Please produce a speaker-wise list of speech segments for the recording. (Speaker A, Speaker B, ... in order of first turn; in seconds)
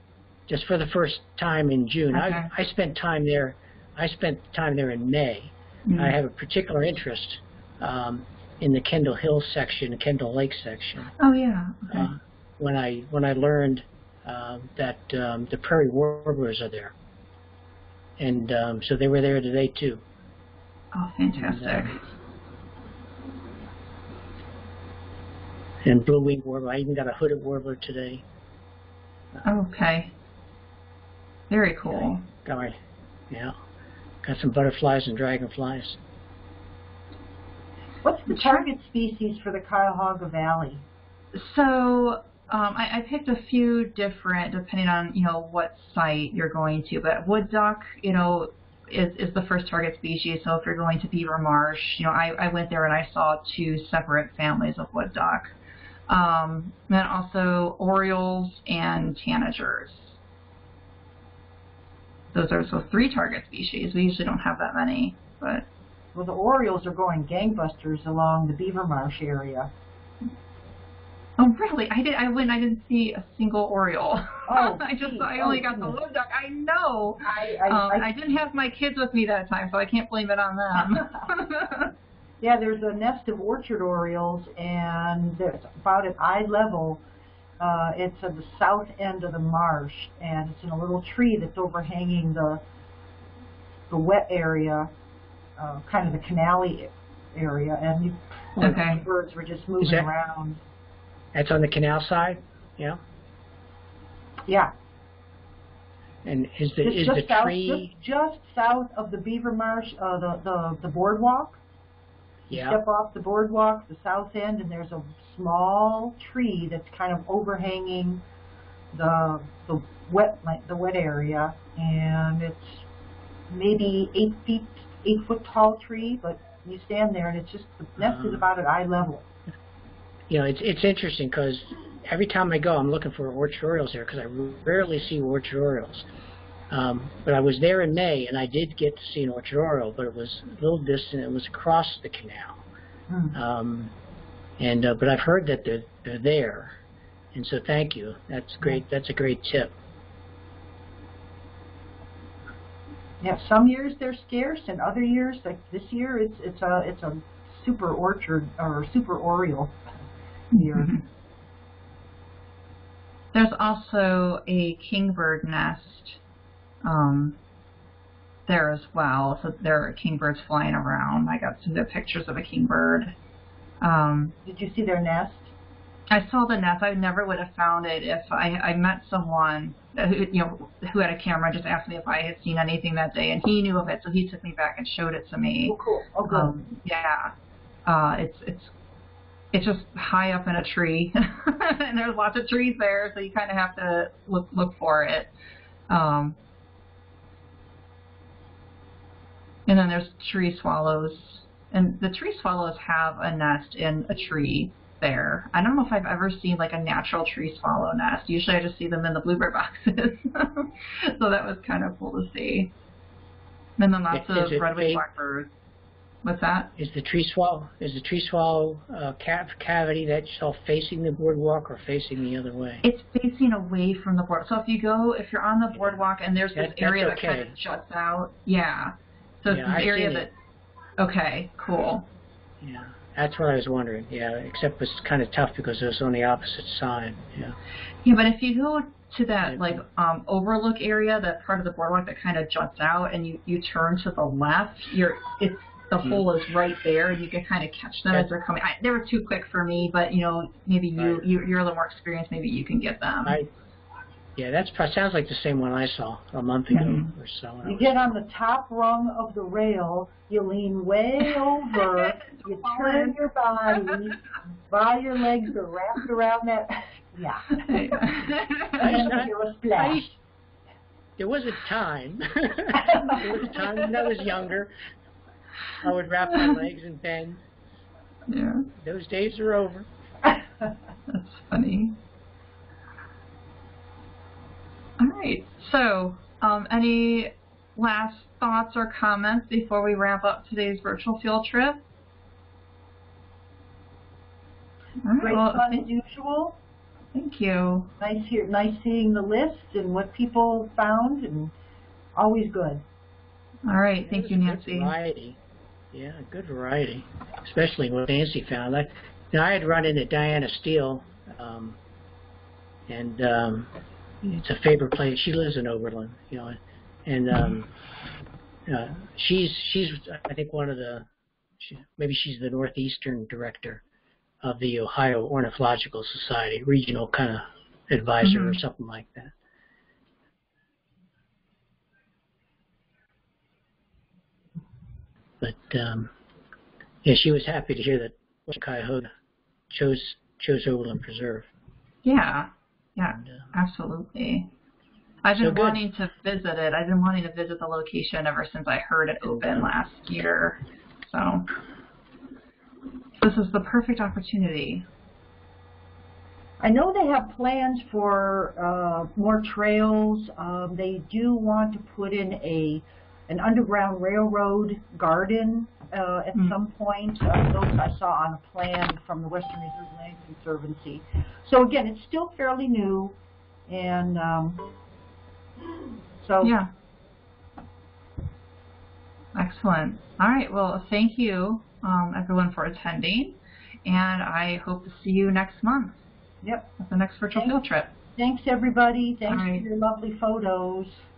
Speaker A: 0.5-11.1, 11.9-16.9, 18.2-20.0, 21.4-22.0, 25.8-28.2, 31.9-32.8, 33.3-33.5, 34.2-36.0, 99.8-100.1, 101.3-103.0, 106.2-107.9, 112.5-112.8, 128.0-128.4, 130.3-136.1, 136.7-142.6, 143.3-143.9, 144.6-146.8, 147.3-149.8, 214.1-215.0, 216.8-222.8, 226.6-227.5, 229.5-230.3, 232.6-237.6, 239.5-239.8, 251.0-251.2, 253.2-253.5, 254.4-258.0, 268.8-270.1, 271.2-274.7, 275.8-277.4, 278.8-279.9, 304.0-305.4, 305.9-311.8, 312.9-313.7, 314.2-317.7, 318.7-321.1, 321.6-323.8, 324.4-329.3, 335.4-336.1, 337.0-339.1, 339.7-341.5, 343.2-343.5, 345.4-345.8, 349.3-349.7
Speaker B: 2.1-2.5, 5.9-6.2, 11.2-12.1, 20.9-22.0, 29.4-30.1, 31.5-32.2, 38.3-38.6, 41.3-55.5, 56.1-60.2, 62.3-65.7, 71.4-81.9, 98.6-99.0, 160.5-161.0, 163.3-166.2, 166.8-167.4, 168.5-173.1, 173.8-174.3, 176.1-185.8, 186.3-187.3, 187.9-188.7, 189.5-195.3, 195.9-196.4, 199.7-212.7, 213.8-215.5, 216.2-216.7, 222.8-230.3, 231.0-232.1, 238.1-253.4, 256.7-257.1, 261.8-263.2, 263.7-264.1, 267.5-269.0, 278.3-278.7, 281.1-282.0, 285.0-291.8, 295.0-295.9, 297.1-297.9, 303.7-304.9, 328.2-328.6, 342.1-344.5, 345.2-351.5, 353.2-354.9, 376.4-376.7, 379.4-386.0, 386.8-387.9, 389.3-389.6
Speaker C: 38.0-40.8, 66.1-69.7, 74.5-76.0, 77.2-78.1, 82.4-87.0, 87.6-92.6, 93.9-94.9, 95.6-100.6, 104.5-104.7, 106.8-111.6, 112.5-118.2, 118.9-122.9, 123.5-129.3, 143.1-143.3, 153.2-159.8, 160.6-160.9, 174.4-175.5, 185.7-186.5, 257.6-268.0, 268.8-270.2, 272.8-273.2, 295.2-296.6, 298.0-301.5, 302.1-302.8, 356.6-373.2, 373.7-374.7, 376.2-376.6, 386.4-386.7, 388.1-391.0